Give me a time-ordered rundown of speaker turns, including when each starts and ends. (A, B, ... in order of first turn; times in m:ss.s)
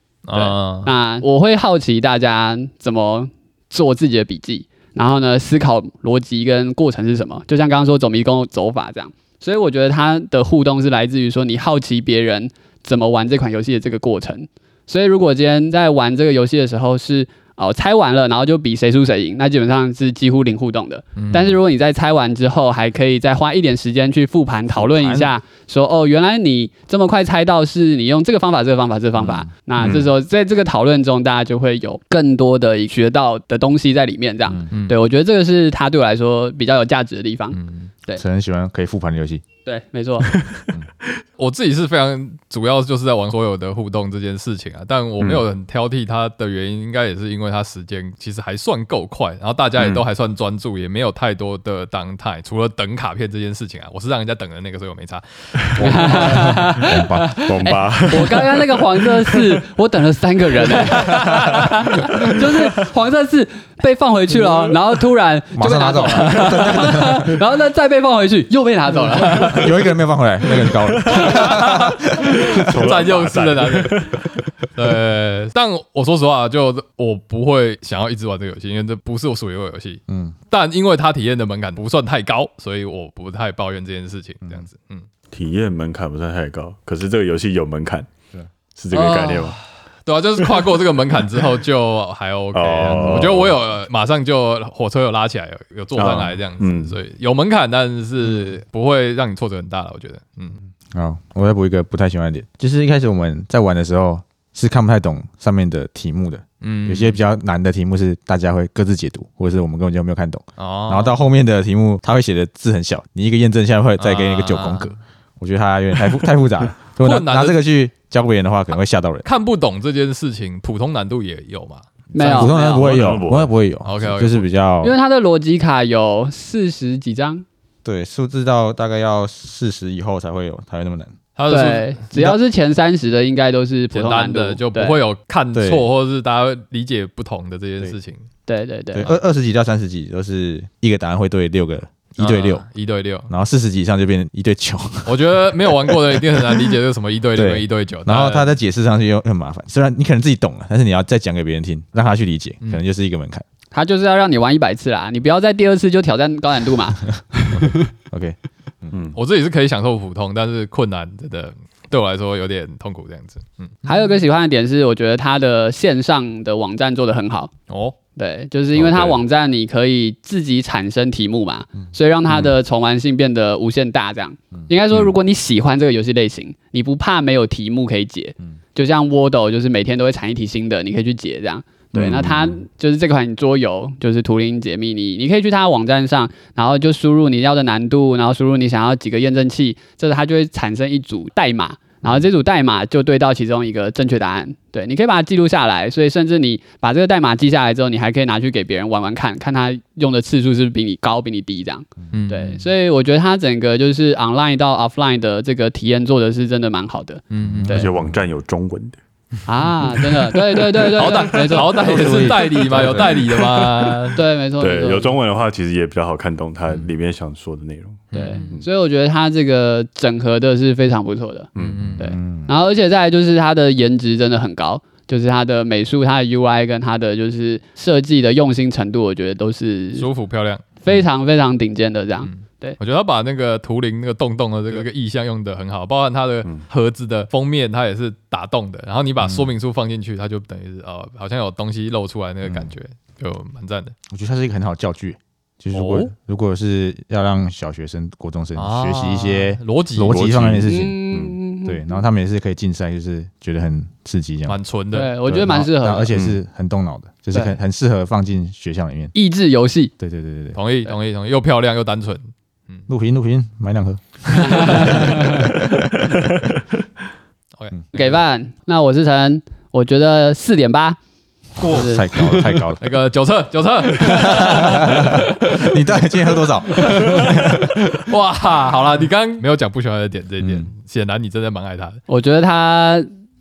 0:00.2-0:00.9 A
0:00.3-0:38.2 B
0:21.2-0:21.5 A
0:24.7-0:25.3 C
0:29.2-0:29.5 C
0:29.8-0:30.1 D
0:34.7-0:35.0 A
0:37.5-0:37.9 A
0:38.2-0:39.4 C
0:39.6-0:40.3 B
0:40.3-0:40.7 D
0:41.4-0:56.5 A
0:49.8-0:50.0 D
0:55.8-0:57.4 C
0:55.8-1:09.6 B
0:57.4-0:59.6 D
1:00.9-1:01.7 A
1:02.1-1:02.7 D
1:05.6-1:07.4 C
1:09.3-1:09.7 A
1:09.3-1:12.5 C
1:10.9-1:11.7 D
1:11.1-1:14.2 A
1:12.4-1:14.2 D
1:14.8-1:25.1 A
1:20.1-1:20.4 C
1:25.3-1:28.1 D
1:28.8-1:29.6 D
1:28.9-1:40.6 A
1:32.5-1:33.6 D
1:36.0-1:37.0 D
1:40.9-1:59.3 C
1:46.6-1:47.2 A
1:50.6-1:51.2 A
1:54.0-1:54.9 A
1:57.0-1:57.6 A
1:59.2-2:02.5 A
2:02.1-2:03.1 B
2:02.2-2:04.9 C
2:02.4-2:03.5 D
2:03.8-2:04.4 A
2:04.8-2:07.4 B
2:07.8-2:11.1 C
2:11.4-2:12.0 A
2:11.5-2:15.0 B
2:13.9-2:18.2 A
2:15.5-2:15.9 C
2:18.5-2:19.1 B
2:18.9-2:22.6 C
2:22.2-2:23.3 A
2:23.3-2:26.5 C
2:25.1-2:28.5 A
2:27.3-2:33.4 C
2:33.7-2:37.9 B
2:38.1-2:38.9 C
2:38.9-2:39.2 D
2:39.2-2:43.8 A
2:43.9-2:47.5 B
2:47.7-2:48.0 A
2:48.2-3:27.9 B
2:48.7-2:49.2 D
3:01.9-3:02.5 D
3:22.1-3:22.6 A
3:27.3-3:27.8 A
3:27.4-3:28.1 C
3:27.7-3:29.0 D
3:29.5-3:33.1 B
3:30.6-3:34.2 A
3:31.8-3:33.0 C
3:32.7-3:38.6 D
3:34.1-3:35.2 B
3:38.1-3:38.5 A
3:38.1-3:50.1 B
3:41.6-3:41.9 D
3:41.6-3:42.1 A
3:41.9-3:42.5 C
3:50.0-3:50.7 A
3:50.8-3:52.8 B
3:52.2-4:03.9 A
3:59.2-3:59.5 C
4:02.4-4:02.7 C
4:04.1-4:11.0 C
4:05.7-4:06.1 A
4:08.6-4:10.2 A
4:10.1-4:11.4 D
4:10.6-4:12.0 B
4:11.6-4:14.6 C
4:14.5-4:15.1 A
4:14.9-4:16.1 B
4:15.2-4:19.1 C
4:16.1-4:16.4 D
4:19.1-4:19.9 B
4:20.0-4:20.6 C
4:20.5-4:22.8 A
4:22.9-4:26.4 C
4:24.5-4:25.4 B
4:24.6-4:24.9 A
4:27.6-4:28.1 A
4:27.9-4:31.0 B
4:31.6-4:32.6 B
4:31.6-4:32.8 C
4:32.8-4:35.9 A
4:34.0-4:37.8 C
4:36.7-4:42.0 A
4:40.4-4:40.7 C
4:42.1-4:43.1 B